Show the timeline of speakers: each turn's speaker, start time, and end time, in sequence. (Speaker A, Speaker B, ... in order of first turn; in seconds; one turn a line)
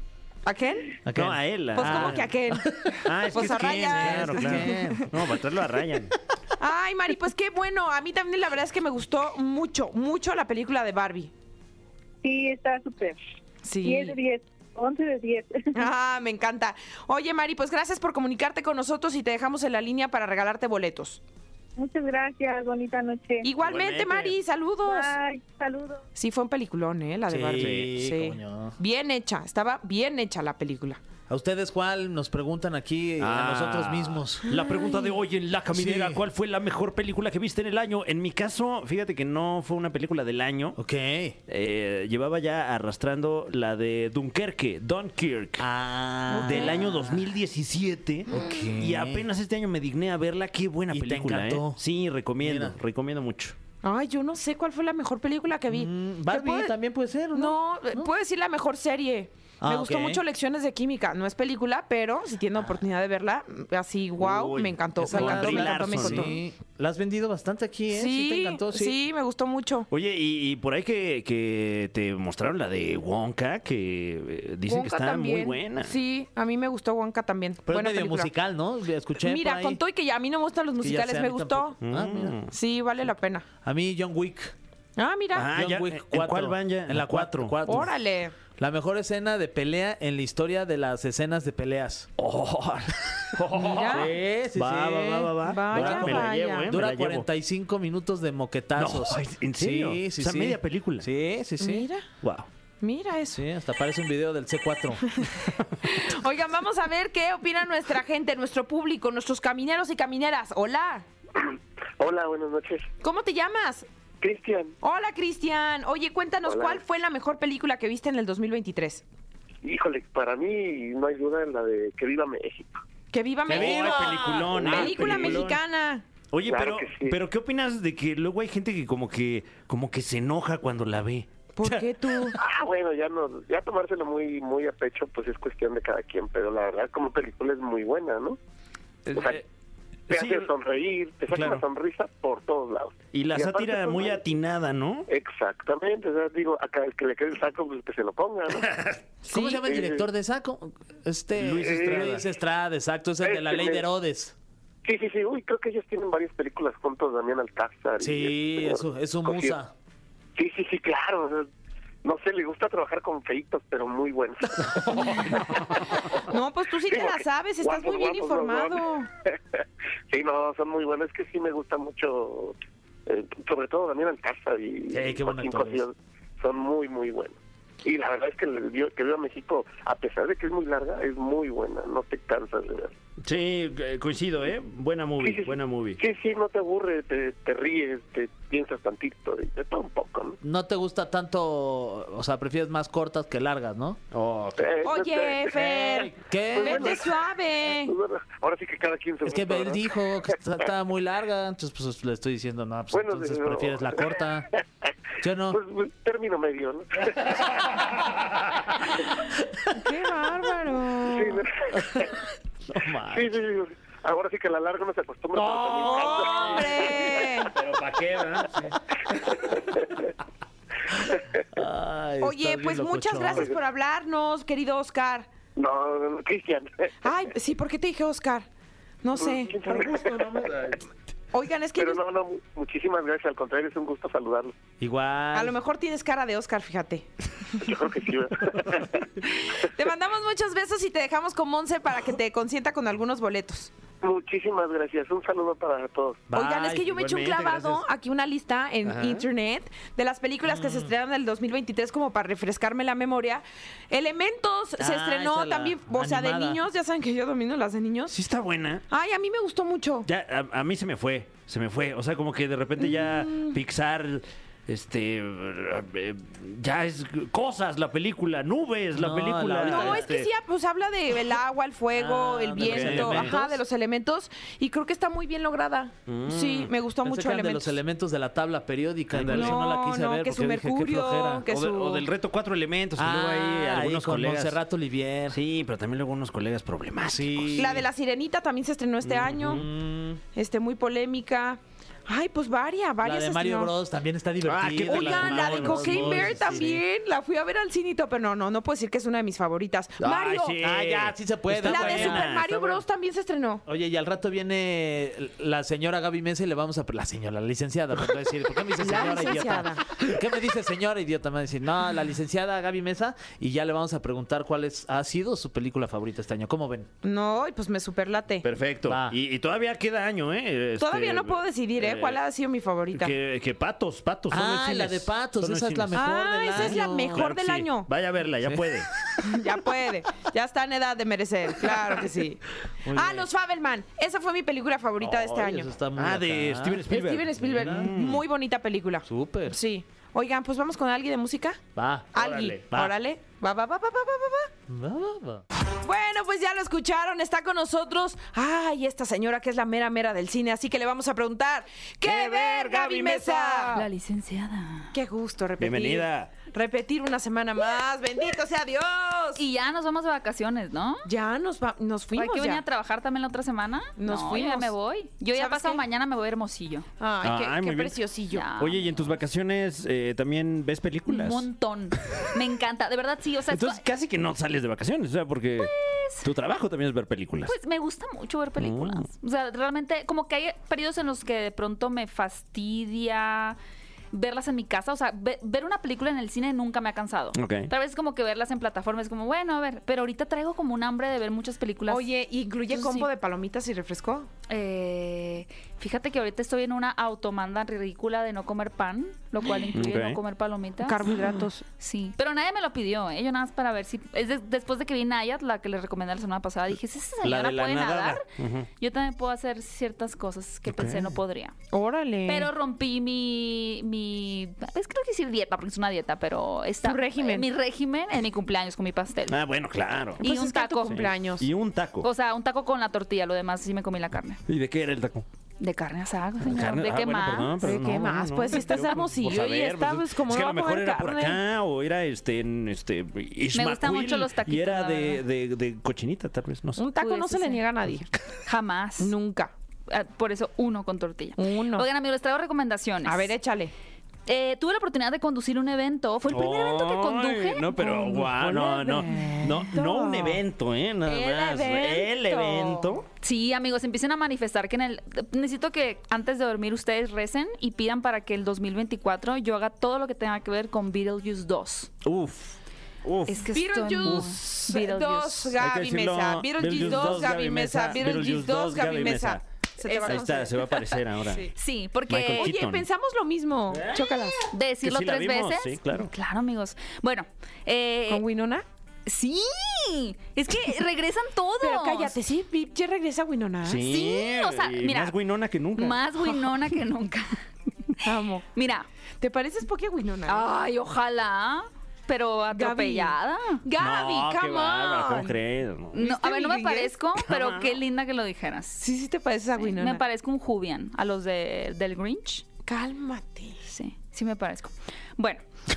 Speaker A: 0.4-0.9
Speaker B: 1.0-5.1
Speaker C: 1.1-2.3
Speaker A: 1.8-5.0
Speaker C: 3.0-6.1
Speaker A: 6.6-11.3
Speaker D: 12.2-13.2
Speaker A: 13.6-14.1
Speaker D: 13.8-15.9
Speaker A: 15.7-21.2
Speaker D: 21.8-23.5
Speaker A: 23.4-25.1
Speaker C: 23.6-24.4
Speaker D: 24.8-26.0
Speaker A: 26.1-31.0
Speaker B: 27.3-28.8
Speaker C: 27.6-27.9
Speaker B: 31.3-34.5
Speaker C: 33.2-40.8
Speaker A: 34.5-35.1
Speaker B: 35.7-36.2
Speaker B: 40.8-41.4
Speaker C: 41.5-45.7
Speaker B: 45.6-47.2
Speaker A: 46.3-46.8
Speaker C: 46.4-53.5
Speaker B: 48.3-49.2
Speaker A: 48.3-48.6
Speaker B: 50.9-51.8
Speaker B: 52.4-52.8
Speaker A: 53.8-56.7
Speaker B: 55.7-58.1
Speaker A: 57.3-66.4
Speaker B: 59.6-60.2
Speaker C: 64.2-66.3
Speaker B: 65.0-69.0
Speaker A: 67.9-69.9
Speaker C: 69.9-76.0
Speaker A: 74.7-78.3
Speaker B: 77.7-79.8
Speaker A: 79.2-81.8
Speaker B: 80.8-82.4
Speaker C: 81.8-82.5
Speaker A: 82.5-83.5
Speaker B: 83.6-84.5
Speaker A: 85.0-85.5
Speaker C: 85.3-87.8
Speaker B: 85.5-87.9
Speaker A: 87.7-88.3
Speaker B: 88.6-92.1
Speaker C: 92.2-97.3
Speaker B: 93.4-101.9
Speaker A: 93.5-94.1
Speaker A: 95.4-96.7
Speaker C: 98.8-101.1
Speaker A: 101.6-102.0
Speaker C: 102.2-102.5
Speaker A: 102.8-103.4
Speaker B: 103.3-105.2
Speaker A: 105.2-111.0
Speaker E: 111.4-112.8
Speaker A: 113.0-113.8
Speaker E: 114.2-114.8
Speaker A: 114.8-119.0
Speaker E: 116.4-116.8
Speaker E: 119.6-122.8
Speaker A: 123.1-126.0
Speaker C: 123.5-125.6
Speaker B: 123.5-125.4
Speaker C: 126.3-131.3
Speaker E: 126.5-127.2
Speaker A: 131.6-132.4
Speaker B: 131.6-132.3
Speaker E: 132.4-138.4
Speaker C: 139.1-139.4
Speaker E: 139.1-139.4
Speaker C: 140.1-140.5
Speaker E: 140.1-144.2
Speaker C: 141.3-141.6
Speaker C: 143.1-145.1
Speaker E: 145.1-148.7
Speaker C: 148.6-149.0
Speaker B: 149.2-154.3
Speaker A: 149.3-149.6
Speaker E: 149.4-150.0
Speaker C: 151.4-152.2
Speaker E: 151.6-152.1
Speaker E: 153.2-153.8
Speaker E: 154.8-159.6
Speaker B: 158.0-159.7
Speaker E: 160.3-161.5
Speaker E: 162.0-165.3
Speaker A: 166.2-169.1
Speaker E: 166.8-168.8
Speaker E: 169.5-182.9
Speaker B: 174.9-175.8
Speaker C: 183.2-186.0
Speaker E: 185.2-190.4
Speaker B: 190.4-194.0
Speaker C: 194.1-194.9
Speaker E: 194.6-195.9
Speaker A: 194.8-197.9
Speaker B: 195.7-197.1
Speaker E: 196.5-199.8
Speaker B: 199.2-204.5
Speaker E: 202.9-204.1
Speaker B: 205.2-205.6
Speaker E: 205.5-207.3
Speaker C: 207.8-208.1
Speaker A: 209.7-211.4
Speaker E: 211.1-212.1
Speaker B: 212.7-213.3
Speaker E: 213.1-217.1
Speaker C: 215.3-219.6
Speaker A: 215.8-217.5
Speaker B: 221.5-223.5
Speaker A: 222.2-225.3
Speaker E: 225.6-226.9
Speaker A: 227.0-228.5
Speaker A: 229.0-229.6
Speaker E: 229.2-230.3
Speaker C: 229.6-230.8
Speaker A: 231.3-232.0
Speaker E: 231.8-234.5
Speaker B: 234.8-235.6
Speaker A: 235.3-237.1
Speaker E: 237.6-239.1
Speaker A: 239.2-243.7
Speaker E: 244.0-246.3
Speaker B: 246.3-246.9
Speaker A: 246.3-258.1
Speaker C: 246.8-247.8
Speaker C: 248.8-249.2
Speaker B: 250.5-250.9
Speaker B: 254.8-256.6
Speaker C: 258.1-258.8
Speaker A: 258.9-260.1
Speaker C: 260.1-270.3
Speaker A: 262.8-263.6
Speaker B: 268.9-270.1
Speaker A: 269.7-277.8
Speaker B: 271.9-273.6
Speaker C: 272.6-273.4
Speaker C: 276.1-276.7
Speaker B: 277.0-281.5
Speaker C: 279.1-279.7
Speaker A: 279.3-282.1
Speaker C: 281.5-284.6
Speaker B: 283.0-285.4
Speaker C: 285.3-287.8
Speaker B: 287.0-287.9
Speaker A: 287.5-289.6
Speaker C: 289.0-289.6
Speaker B: 289.4-290.2
Speaker A: 290.3-293.7
Speaker B: 293.0-296.8
Speaker C: 294.4-296.8
Speaker A: 294.9-300.6
Speaker C: 300.0-302.8
Speaker B: 300.6-302.4
Speaker A: 301.6-303.6
Speaker B: 303.6-316.9
Speaker A: 308.8-310.0
Speaker A: 317.0-318.4
Speaker C: 318.4-322.2
Speaker B: 318.9-319.2
Speaker A: 320.8-323.1
Speaker C: 322.9-328.9
Speaker B: 324.3-327.2
Speaker A: 325.9-327.9
Speaker B: 328.4-329.3
Speaker A: 329.2-335.7
Speaker B: 332.8-333.3
Speaker C: 335.0-335.3
Speaker B: 335.0-337.9
Speaker C: 335.9-338.2
Speaker A: 336.9-341.6
Speaker B: 339.1-339.6
Speaker B: 341.8-342.9
Speaker A: 342.1-344.5
Speaker C: 342.1-342.9
Speaker B: 344.7-345.4
Speaker A: 345.8-353.9
Speaker C: 352.0-353.8
Speaker F: 353.7-354.9
Speaker A: 354.9-359.4
Speaker C: 355.6-356.3
Speaker F: 359.4-361.1
Speaker A: 361.1-362.6
Speaker F: 362.1-366.9
Speaker A: 364.0-364.7
Speaker A: 365.3-365.8
Speaker A: 367.0-368.5
Speaker C: 367.2-368.0
Speaker F: 368.3-369.2
Speaker C: 368.6-371.5
Speaker F: 371.1-373.8
Speaker C: 373.5-377.5
Speaker F: 375.6-376.3
Speaker F: 377.4-383.6
Speaker C: 378.6-379.1
Speaker F: 384.1-392.1
Speaker C: 387.3-387.7
Speaker A: 391.9-394.3
Speaker F: 392.7-393.1
Speaker F: 394.5-401.1
Speaker C: 399.7-400.2
Speaker A: 400.8-401.6
Speaker F: 401.8-408.2
Speaker C: 407.2-408.7
Speaker F: 408.8-411.5
Speaker C: 410.6-411.1
Speaker A: 411.7-412.5
Speaker F: 412.2-419.4
Speaker A: 416.8-417.5
Speaker C: 419.3-420.2
Speaker F: 420.2-421.1
Speaker A: 420.2-421.5
Speaker C: 420.9-422.1
Speaker F: 422.0-424.4
Speaker C: 424.5-425.2
Speaker F: 425.6-427.8
Speaker C: 426.4-436.8
Speaker A: 427.6-431.4
Speaker F: 433.5-435.2
Speaker A: 436.8-438.1
Speaker F: 436.9-437.6
Speaker F: 438.4-439.1
Speaker A: 439.0-439.5
Speaker F: 439.9-443.3
Speaker A: 441.4-441.9
Speaker A: 443.0-443.7
Speaker F: 444.2-448.2
Speaker C: 446.3-453.1
Speaker A: 447.8-450.4
Speaker A: 451.0-453.0
Speaker F: 453.2-461.9
Speaker C: 462.0-463.4
Speaker F: 463.3-465.6
Speaker A: 463.3-470.7
Speaker C: 464.0-464.4
Speaker C: 465.6-469.4
Speaker F: 466.8-467.3
Speaker F: 469.8-470.3
Speaker C: 470.0-471.5
Speaker A: 471.2-471.5
Speaker F: 471.5-472.5
Speaker C: 472.1-472.9
Speaker A: 472.4-474.4
Speaker C: 473.7-476.1
Speaker F: 474.5-478.2
Speaker A: 478.1-478.6
Speaker F: 479.1-482.2
Speaker A: 481.6-483.8
Speaker C: 483.6-486.0
Speaker F: 483.9-485.1
Speaker F: 485.8-487.4
Speaker A: 488.0-488.4
Speaker F: 488.5-488.9
Speaker A: 489.2-490.4
Speaker F: 490.3-493.6
Speaker A: 492.5-495.3
Speaker C: 493.8-496.0
Speaker F: 495.9-498.8
Speaker A: 496.0-496.9
Speaker C: 497.2-497.8
Speaker A: 498.8-500.0
Speaker F: 499.6-502.4
Speaker A: 502.6-503.6
Speaker F: 503.6-505.4